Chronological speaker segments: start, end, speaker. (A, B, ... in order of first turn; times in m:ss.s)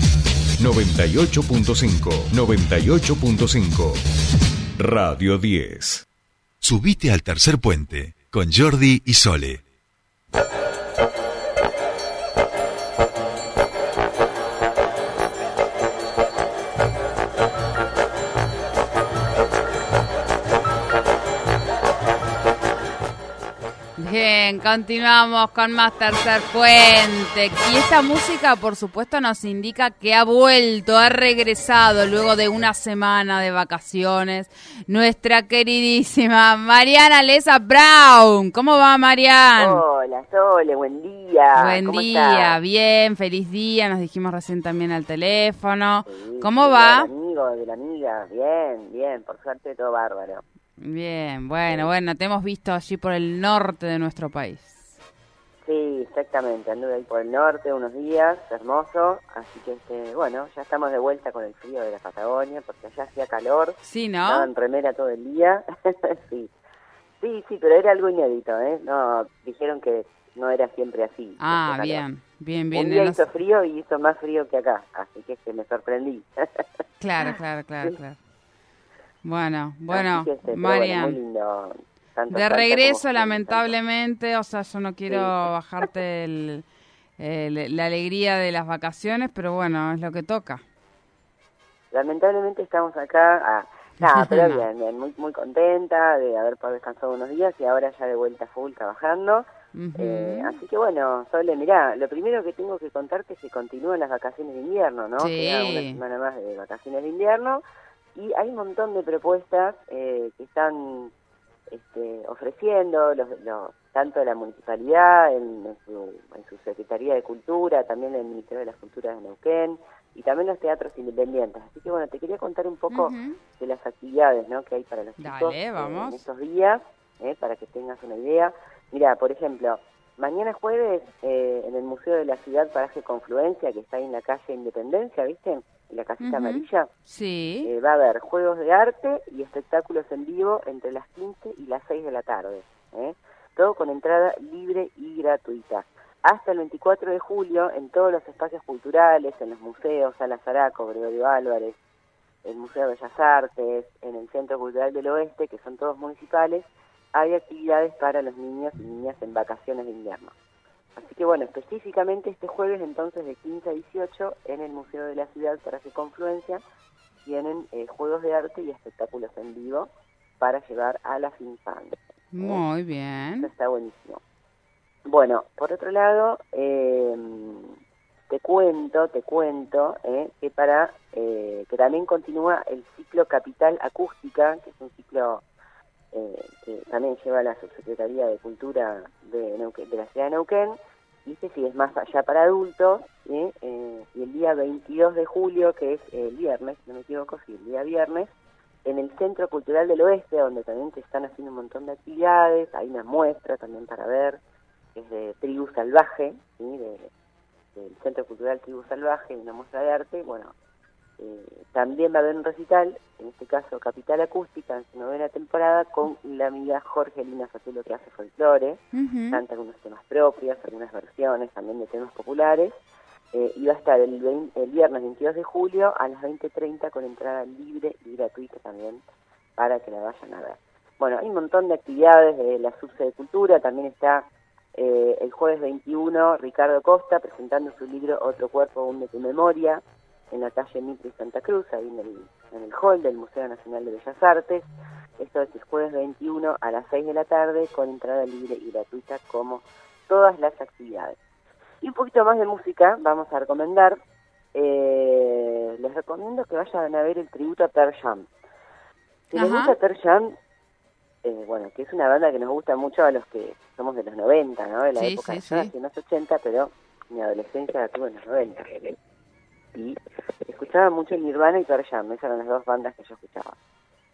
0:00.6-0:04.0 A
0:04.8-0:06.0 A
0:06.6-0:09.6 B
0:24.0-0:39.8 C
0:39.6-0:42.6 D
0:41.5-0:47.1 C
0:46.1-0:50.4 D
0:50.8-0:54.8 C
0:55.6-1:06.5 D
1:03.8-1:04.5 C
1:07.2-1:12.1 D
1:11.4-1:13.2 C
1:12.7-1:16.6 D
1:17.0-1:18.2 C
1:19.2-1:21.2 C
1:19.9-1:23.8 D
1:22.3-1:26.7 C
1:25.1-1:25.4 D
1:27.2-1:30.6 C
1:31.9-1:39.4 D
1:34.0-1:34.7 C
1:39.7-1:40.6 C
1:40.0-1:47.6 D
1:45.2-1:46.0 C
1:48.2-1:51.1 D
1:51.7-2:16.9 D
2:02.9-2:03.4 C
2:05.2-2:06.2 C
2:16.2-2:17.7 C
2:17.6-2:31.8 D
2:32.4-2:40.3 D
2:41.0-2:46.6 D
2:47.2-2:49.9 D
2:50.4-2:52.6 D
2:52.3-2:53.5 C
2:53.4-2:54.2 D
2:55.1-2:57.8 D
2:58.3-3:05.4 D
3:06.1-3:18.3 D
3:18.8-3:24.4 D
3:25.0-3:27.1 D
3:27.8-3:30.5 D
3:31.2-3:42.8 D
3:38.9-3:39.4 C
3:43.3-3:49.0 D
3:49.6-4:11.2 D
4:11.8-4:14.0 D
4:14.5-4:18.3 D
4:19.3-4:20.4 D
4:19.4-4:19.7 C
4:21.2-4:29.0 D
4:25.0-4:25.7 C
4:29.7-4:33.6 D